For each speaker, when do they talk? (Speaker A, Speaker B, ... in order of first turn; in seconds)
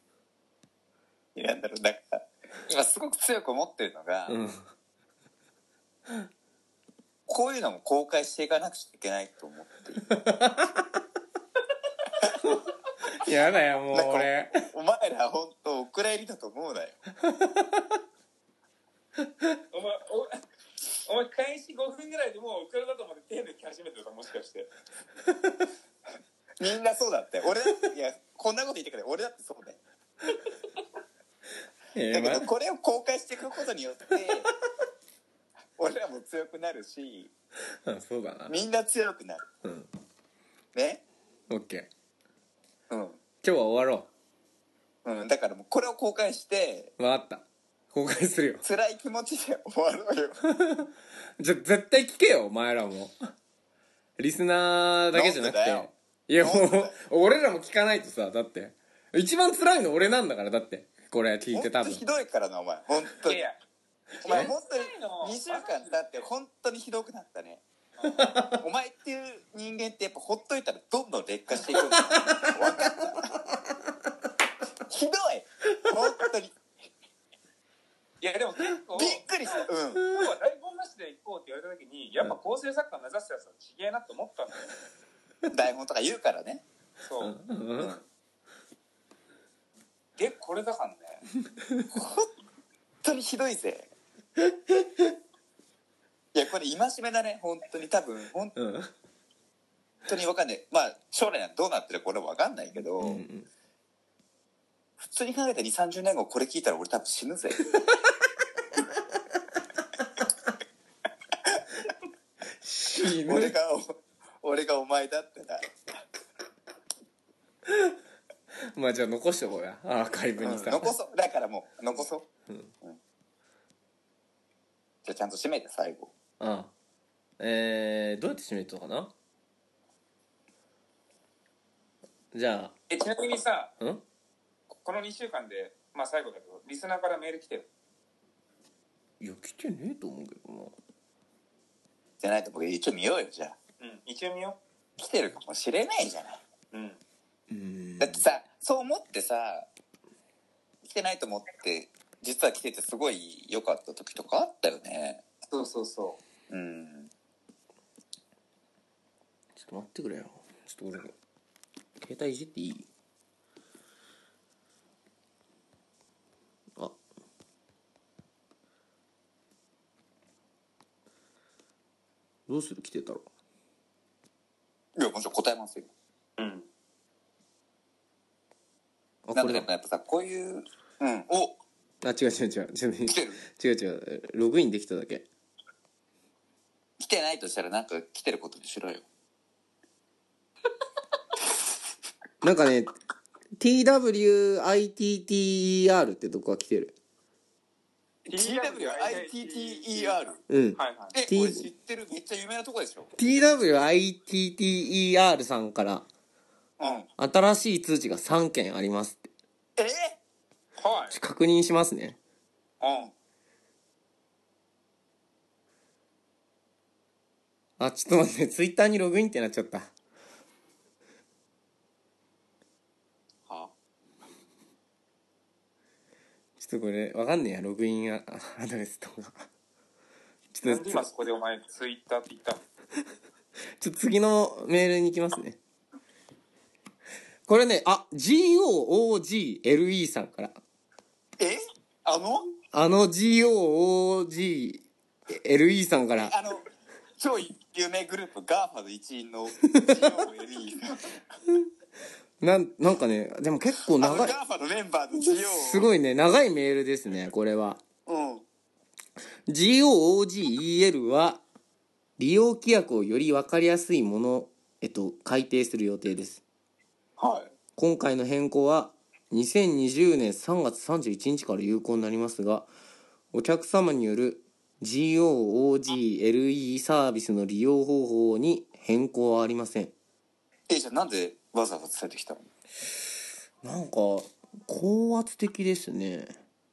Speaker A: 1.4-4.4, 7.3-10.0, 13.9-17.0, 26.6-29.8, 32.1-34.5, 35.8-37.3, 38.5-39.5, 40.7-41.0, 42.9-43.2, 45.0-46.9, 48.6-50.4, 55.1-57.0, 61.5-63.4, 64.2-67.6, 68.6-73.4, 74.9-76.6, 78.9-80.1, 85.5-86.6, 87.8-88.0, 91.9-92.3, 93.0-93.9, 96.3-98.5, 100.1-103.2, 105.0-107.8, 113.0-115.7, 120.4-122.3, 125.0-126.1, 142.2-143.6, 145.0-146.4, 148.0-149.7, 150.8-155.2, 156.5-157.1, 175.0-175.9, 179.4-181.6, 183.1-183.4, 187.0-189.1, 198.3-200.4, 201.1-203.2, 206.8-207.1, 209.8-210.2, 241.4-242.5, 246.2-246.7, 247.2-251.1, 254.0-255.9, 258.1-258.4, 267.2-267.5, 280.7-282.5
Speaker B: 4.3-4.6, 10.1-11.0, 12.4-14.7, 17.2-18.0, 31.9-32.5, 37.8-38.6, 39.6-39.9, 41.5-41.9, 43.4-44.1, 47.0-48.6, 50.4-53.3, 54.2-62.0, 64.2-64.5, 68.0-68.6, 71.6-73.8, 87.2-88.0, 91.4-91.9, 94.4-95.1, 98.5-98.9, 103.0-103.5, 112.6-113.6, 117.7-118.0, 118.7-121.0, 122.5-122.7, 126.4-126.7, 127.4-129.1, 132.3-132.7, 139.2-140.8, 147.5-148.2, 159.6-161.1, 162.0-162.9, 172.5-173.3, 179.3-179.7, 182.0-185.3, 192.4-192.9, 193.6-197.0, 200.5-201.7, 203.2-206.1, 207.2-209.3, 211.1-212.2, 217.8-219.9, 226.6-229.5, 230.5-231.1, 233.8-235.6, 237.5-240.6, 242.7-246.3, 249.7-249.9, 252.4-254.4, 255.2-257.8, 259.5-261.4, 262.2-266.4, 267.8-272.7, 273.3-279.9, 283.6-286.3
Speaker C: 19.7-24.7, 63.2-63.6, 64.2-66.2, 68.0-68.3, 78.2-84.7, 87.0-87.4, 90.2-91.2, 132.9-133.7, 134.7-137.7, 143.8-144.6, 146.7-147.0, 155.5-156.2, 176.4-176.7, 198.3-200.2, 200.8-201.2, 206.8-207.0, 210.8-211.2, 212.8-213.1, 230.7-232.6